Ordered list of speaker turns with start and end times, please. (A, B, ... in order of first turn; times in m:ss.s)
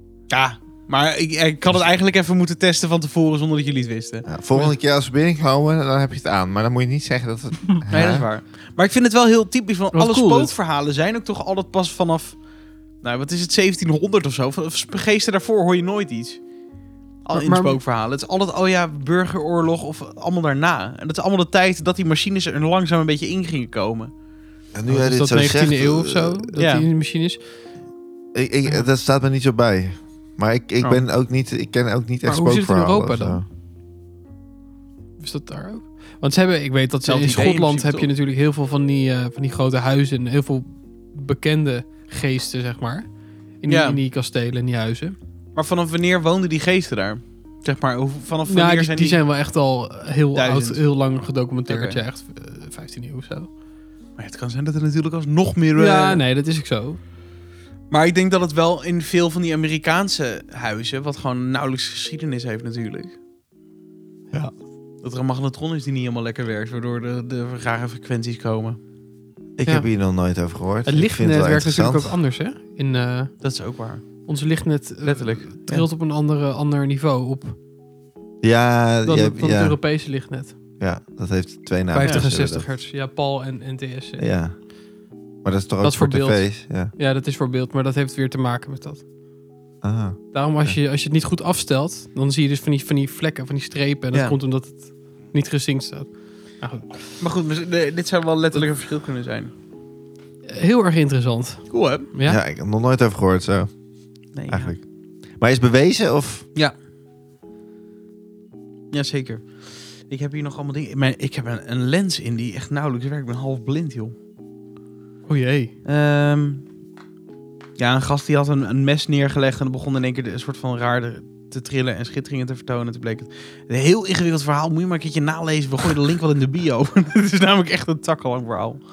0:00.3-0:04.3 A
0:04.2-0:08.3 B
0:07.9-0:12.4 A
0:09.9-0:10.5 C
0:13.0-0:16.4 A
0:17.2-0:24.1 A
0:17.3-0:17.8 C
0:24.7-0:26.6 B
0:24.9-0:27.4 C
0:26.6-0:26.9 A
0:28.3-0:33.5 B
0:32.2-0:33.4 C
0:35.2-0:43.1 C
0:37.1-0:38.1 A
0:43.6-0:45.2 C
0:43.7-0:44.0 A
0:45.6-0:49.2 A
0:48.5-0:53.5 C
0:50.4-0:50.8 A
0:51.7-0:52.0 A
0:54.2-0:56.2 A
0:55.8-0:57.0 C
0:57.9-1:03.1 A
1:05.0-1:08.8 A
1:09.6-1:12.1 B
1:10.9-1:13.4 C
1:13.4-1:14.3 A
1:14.2-1:17.6 C
1:15.0-1:15.9 A
1:18.4-1:19.8 B
1:19.1-1:20.6 C
1:20.8-1:22.7 B
1:21.9-1:24.2 C
1:22.0-1:22.3 A
1:24.2-1:24.6 B
1:25.4-1:26.9 B
1:25.8-1:29.0 C
1:29.8-1:30.8 B
1:30.3-1:37.1 C
1:34.1-1:34.4 A
1:37.2-1:39.5 A
1:40.5-1:42.4 C
1:41.7-1:42.1 A
1:42.3-1:43.7 B
1:44.4-1:44.8 A
1:44.5-1:44.8 B
1:45.4-1:46.5 B
1:48.9-1:54.2 A
1:55.3-1:55.7 C
1:55.8-1:56.6 A
1:57.8-2:08.8 A